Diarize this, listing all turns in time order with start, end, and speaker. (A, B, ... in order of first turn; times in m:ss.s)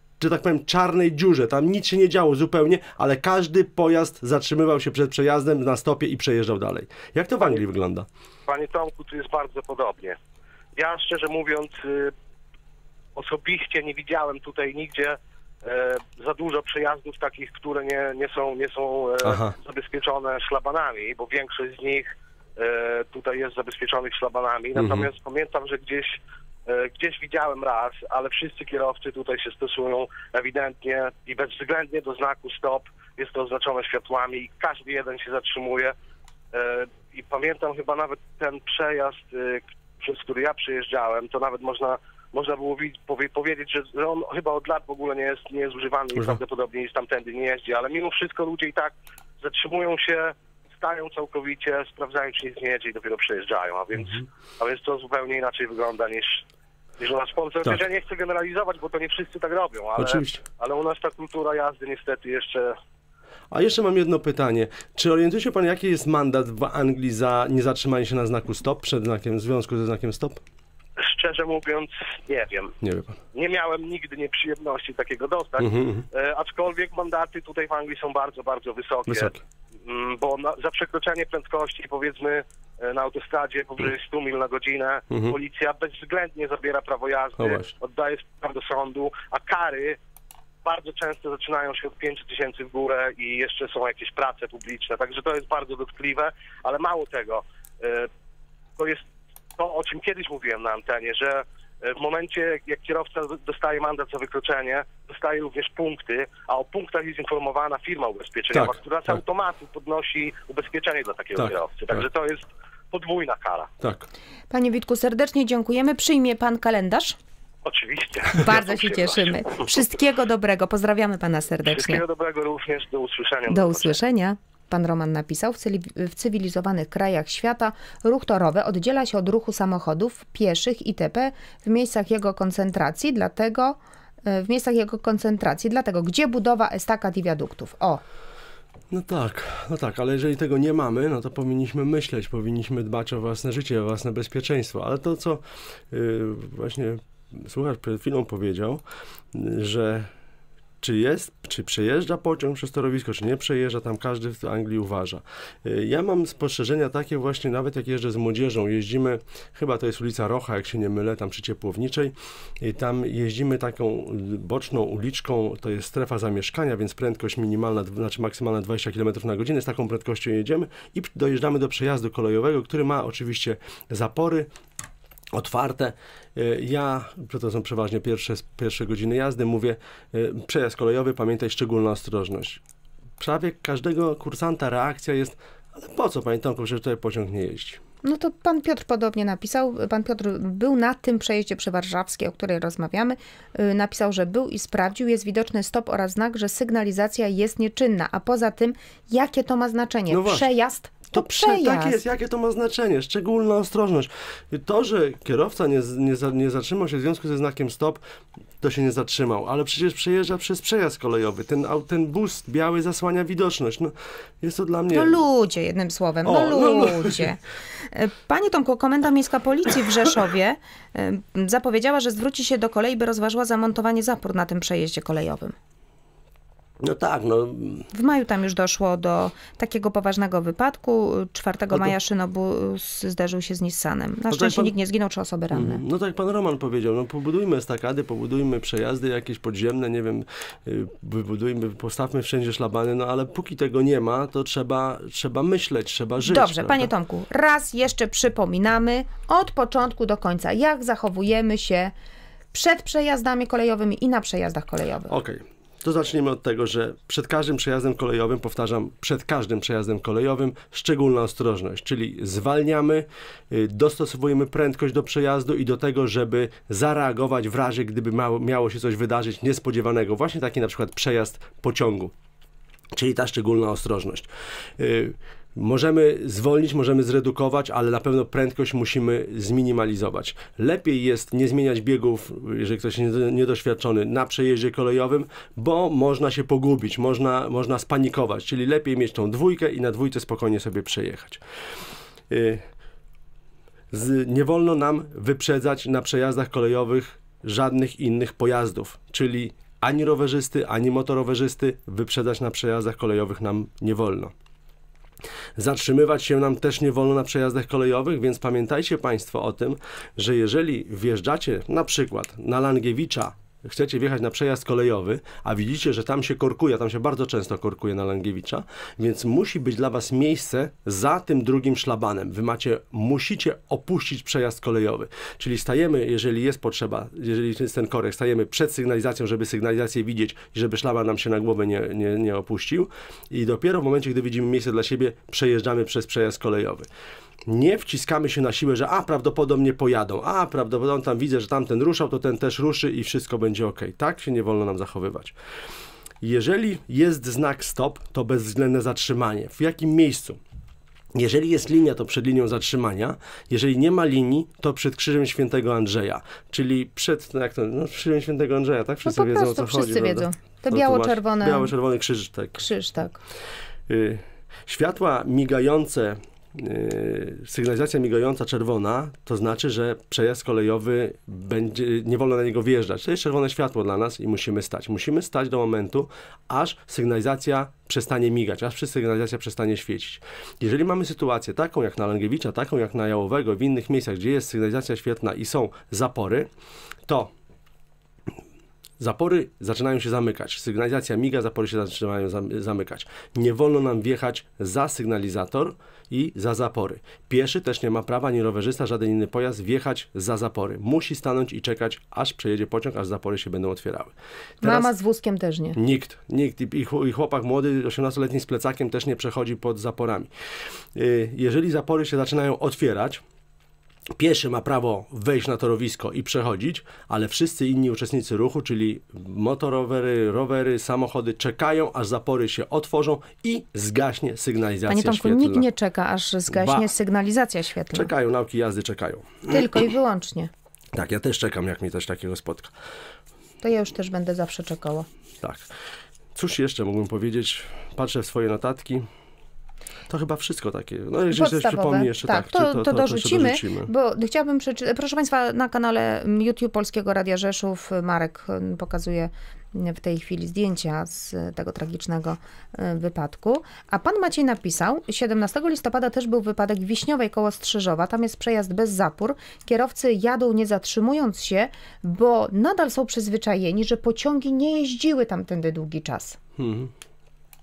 0:00.2-0:08.1 A
0:08.5-0:10.2 B
0:10.8-0:12.1 B
0:13.2-0:35.9 B
0:19.2-0:19.6 A
0:24.8-0:25.1 A
0:36.5-0:56.4 B
0:46.1-0:46.4 A
0:57.0-1:02.8 B
1:00.0-1:00.4 A
1:03.5-1:10.4 A
1:11.0-1:12.7 B
1:12.8-1:13.2 A
1:13.3-1:19.3 B
1:15.6-1:16.1 A
1:19.1-1:19.4 A
1:19.8-1:30.0 B
1:25.1-1:25.4 A
1:27.4-1:27.7 A
1:30.6-1:38.1 B
1:38.8-1:39.0 B
1:39.6-1:53.7 B
1:48.5-1:49.2 A
1:51.4-1:52.0 A
1:53.8-1:54.1 A
1:54.5-1:57.2 C
1:57.6-1:59.6 B
1:58.4-2:02.0 C
2:01.6-2:04.0 B
2:03.5-2:18.0 C
2:18.9-2:28.8 A
2:29.3-2:30.1 A
2:30.8-2:54.5 A
2:55.3-3:02.6 A
3:03.2-3:07.8 A
3:08.0-3:22.0 C
3:20.1-3:20.5 A
3:21.1-3:28.0 A
3:28.6-3:35.2 A
3:34.9-3:45.6 C
3:36.2-3:37.3 A
3:46.8-3:47.9 A
3:47.9-3:55.8 C
3:54.3-3:54.7 A
3:55.5-4:06.9 A
4:06.2-4:11.9 C
4:12.5-4:15.1 C
4:15.1-4:32.1 A
4:32.9-4:51.4 A
4:52.3-4:52.6 A
4:53.9-5:04.3 A
5:05.6-5:36.9 A
5:37.4-5:45.4 A
5:46.2-5:50.4 A
5:51.1-6:02.7 A
5:59.0-6:01.7 C
6:02.6-6:03.2 C
6:03.9-6:26.5 A
6:27.1-6:27.3 A
6:29.0-6:44.9 A
6:44.6-6:45.8 C
6:45.7-6:50.3 A
6:50.9-6:53.2 A
6:54.2-7:05.6 A
7:04.9-7:08.1 C
7:06.5-7:06.9 A
7:07.9-7:09.8 A
7:09.5-7:10.5 C
7:10.9-7:12.7 A
7:13.6-7:15.1 C
7:15.4-7:15.6 A
7:16.4-7:19.1 A
7:20.1-7:23.9 A
7:21.3-7:46.4 C
7:46.6-7:46.9 A